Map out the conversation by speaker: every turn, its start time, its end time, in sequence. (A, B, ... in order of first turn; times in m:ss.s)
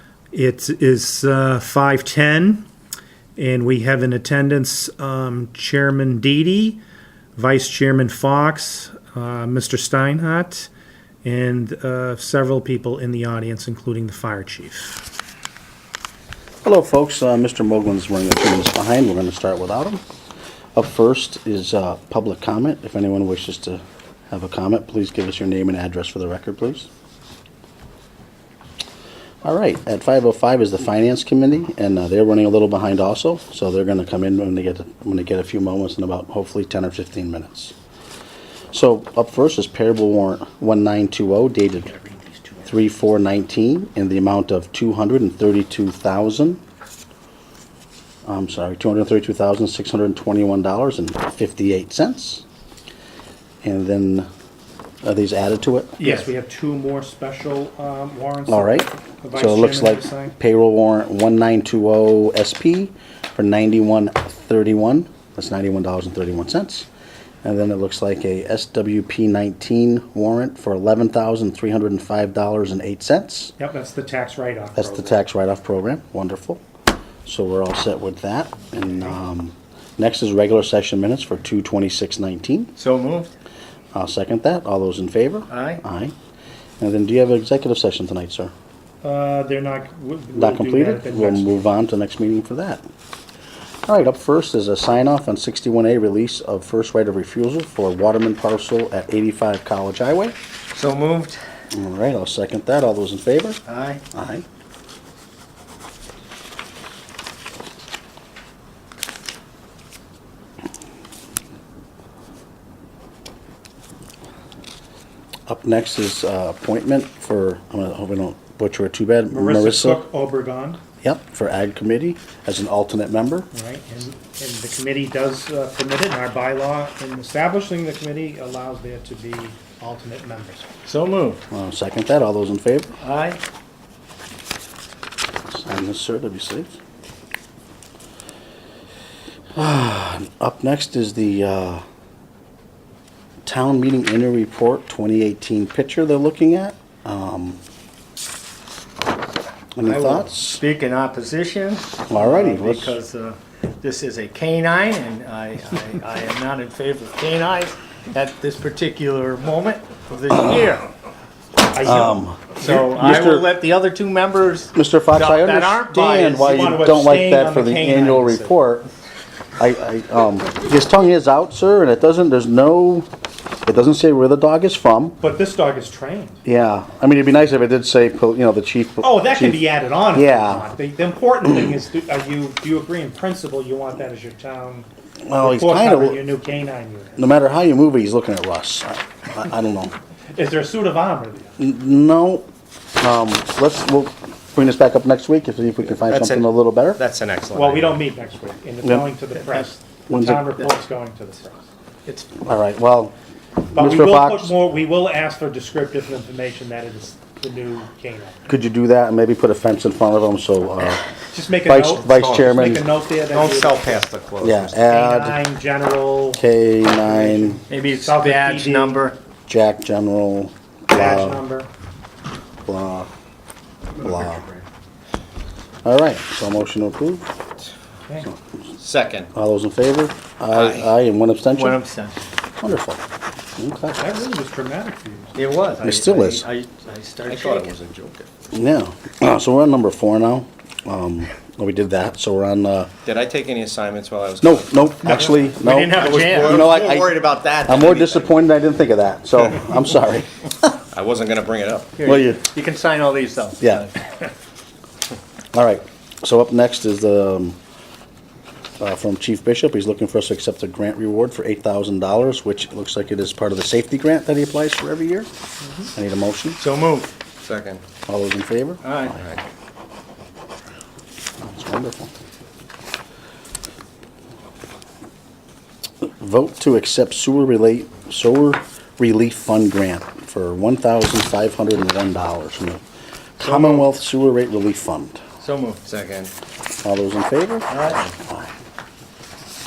0:00.3-0:02.7 A
0:03.4-0:06.8 A
0:07.4-0:10.7 A
0:11.2-0:15.0 A
0:16.6-0:20.0 B
0:20.7-0:26.9 B
0:29.4-0:37.7 B
0:38.7-0:42.0 B
0:42.6-0:46.6 B
0:48.2-0:52.4 B
0:53.6-0:54.3 B
0:55.0-0:56.0 B
0:56.0-1:00.3 A
0:58.5-1:06.9 B
1:07.4-1:13.5 B
1:13.6-1:15.2 A
1:14.8-1:16.6 B
1:17.2-1:22.7 B
1:22.8-1:23.3 C
1:23.9-1:26.1 B
1:25.5-1:25.8 C
1:26.8-1:28.5 B
1:29.0-1:31.6 A
1:30.3-1:32.8 B
1:33.9-1:40.3 B
1:40.7-1:41.4 C
1:41.7-1:43.6 B
1:43.6-1:44.0 C
1:44.1-1:44.4 B
1:55.5-2:00.0 B
1:59.3-2:00.8 A
2:01.0-2:03.5 B
2:03.5-2:10.7 A
2:10.8-2:11.4 C
2:11.5-2:13.0 B
2:13.0-2:13.4 C
2:15.5-2:16.7 B
2:19.5-2:21.8 B
2:23.4-2:27.6 B
2:29.8-2:30.6 B
2:29.8-2:40.8 C
2:32.1-2:33.0 B
2:41.7-2:42.8 A
2:41.8-2:43.5 B
2:42.6-2:46.5 C
2:44.7-2:48.9 B
2:46.4-2:48.6 A
2:49.6-2:53.1 B
2:53.6-2:55.2 B
2:55.2-2:56.4 A
2:56.4-3:00.7 B
2:59.0-3:04.9 A
3:05.2-3:06.3 B
3:05.4-3:07.3 A
3:07.2-3:09.9 B
3:10.3-3:11.6 A
3:11.6-3:12.5 B
3:13.0-3:17.0 B
3:15.9-3:18.0 D
3:17.5-3:21.6 A
3:18.8-3:20.7 B
3:22.4-3:23.1 B
3:23.7-3:24.5 B
3:23.7-3:28.5 A
3:28.5-3:31.0 B
3:31.3-3:34.0 A
3:31.6-3:32.9 B
3:32.1-3:32.6 D
3:33.3-3:34.7 D
3:34.4-3:35.4 B
3:34.8-3:36.4 A
3:36.3-3:37.6 B
3:37.0-3:39.0 A
3:37.7-3:39.2 C
3:39.5-3:41.4 B
3:40.9-3:41.7 A
3:42.6-3:43.1 B
3:44.0-3:44.4 B
3:45.8-3:47.3 B
3:48.8-3:49.3 D
3:49.3-3:51.8 B
3:50.5-3:50.9 D
3:51.5-3:52.2 C
3:52.6-3:53.0 B
3:53.6-3:54.2 B
3:54.0-3:55.4 A
3:55.3-3:57.7 C
3:55.8-3:56.5 B
3:57.2-3:58.3 D
3:58.5-4:02.9 B
4:03.0-4:05.2 D
4:04.4-4:10.8 B
4:05.0-4:06.8 C
4:05.9-4:08.3 D
4:10.9-4:12.0 D
4:12.0-4:14.0 C
4:12.0-4:12.4 B
4:13.6-4:13.9 B
4:15.5-4:17.6 B
4:18.8-4:25.3 B
4:25.9-4:26.6 B
4:26.6-4:27.1 C
4:27.4-4:27.8 D
4:28.1-4:29.1 B
4:28.8-4:29.2 C
4:29.2-4:29.4 D
4:31.4-4:32.1 B
4:36.0-4:42.8 B
4:43.4-4:45.2 B
4:43.4-4:43.8 C
4:45.4-4:45.8 C
4:45.8-4:46.3 D
4:46.8-4:48.5 B
4:47.7-4:48.1 C